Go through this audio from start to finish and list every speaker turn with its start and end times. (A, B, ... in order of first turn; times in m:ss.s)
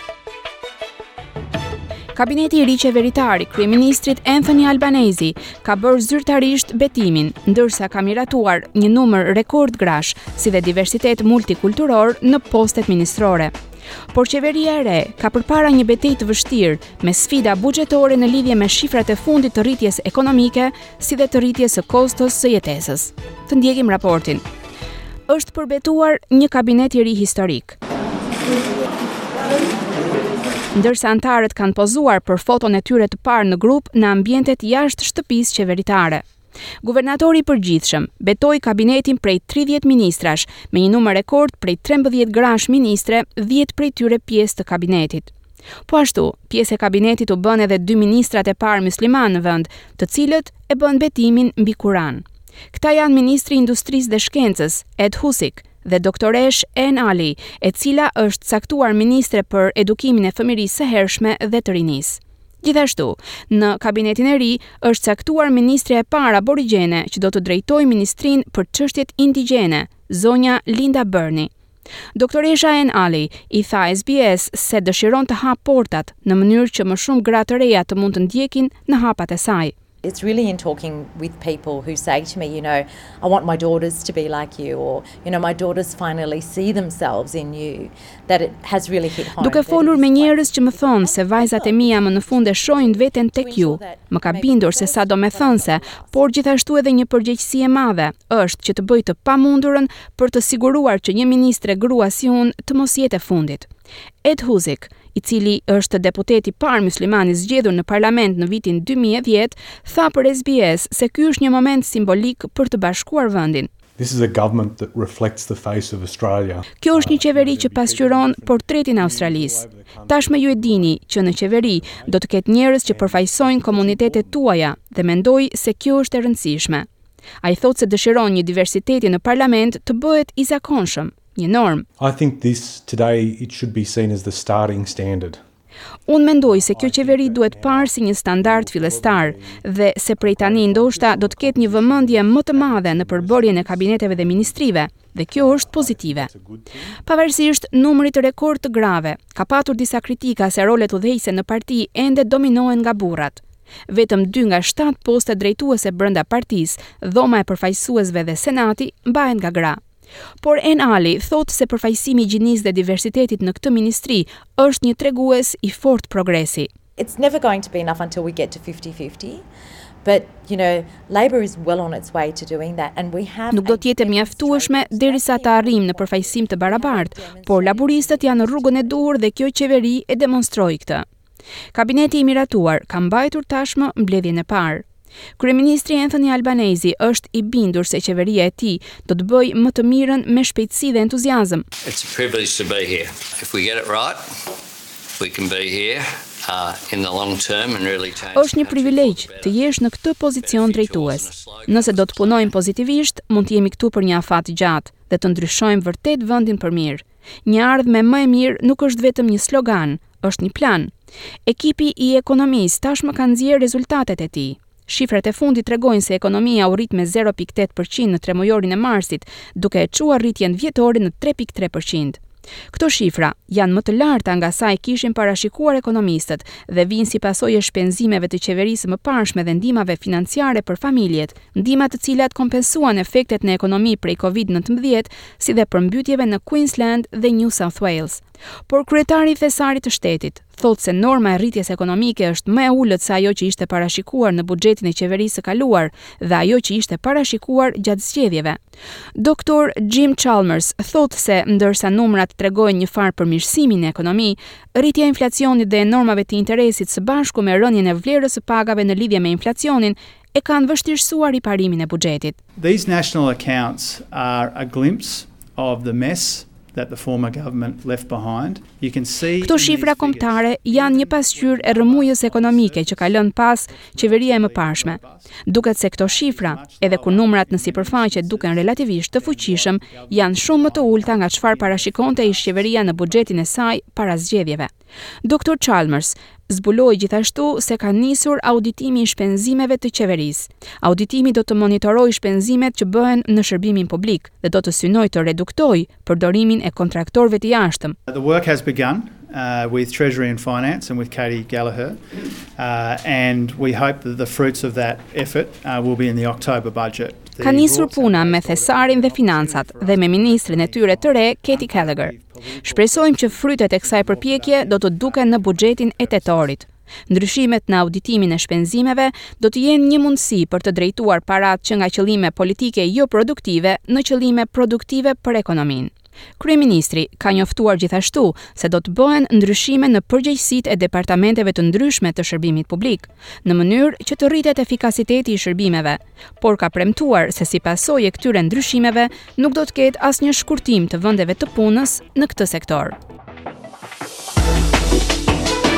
0:02.1-0:13.5 A
0:14.1-0:24.4 A
0:25.3-0:27.8 A
0:30.7-0:36.2 A
0:36.8-0:45.3 A
0:45.9-1:11.5 A
1:12.1-1:19.7 A
1:20.0-1:36.3 B
1:29.4-1:43.7 A
1:44.2-1:53.7 A
1:54.0-2:02.2 C
1:56.8-2:06.9 A
2:02.8-2:04.4 C
2:07.4-2:11.8 A
2:12.0-2:15.4 C
2:16.1-2:26.3 A
2:16.4-2:19.6 C
2:20.2-2:24.6 C
2:25.3-2:27.0 C
2:27.0-2:39.8 A
2:40.4-2:46.7 A
2:47.0-2:49.4 B
2:50.0-2:59.0 B
2:53.5-3:01.0 A
3:01.7-3:04.8 A
3:05.4-3:11.6 A
3:11.8-3:14.2 D
3:15.2-3:19.6 D
3:18.3-3:30.9 A
3:20.4-3:22.5 D
3:31.4-3:42.2 A
3:42.7-4:08.6 A
4:09.1-4:22.4 A
4:22.6-4:43.4 E
4:29.4-4:44.7 A
4:45.2-4:58.0 A
4:58.1-5:16.6 E
5:07.4-5:43.0 A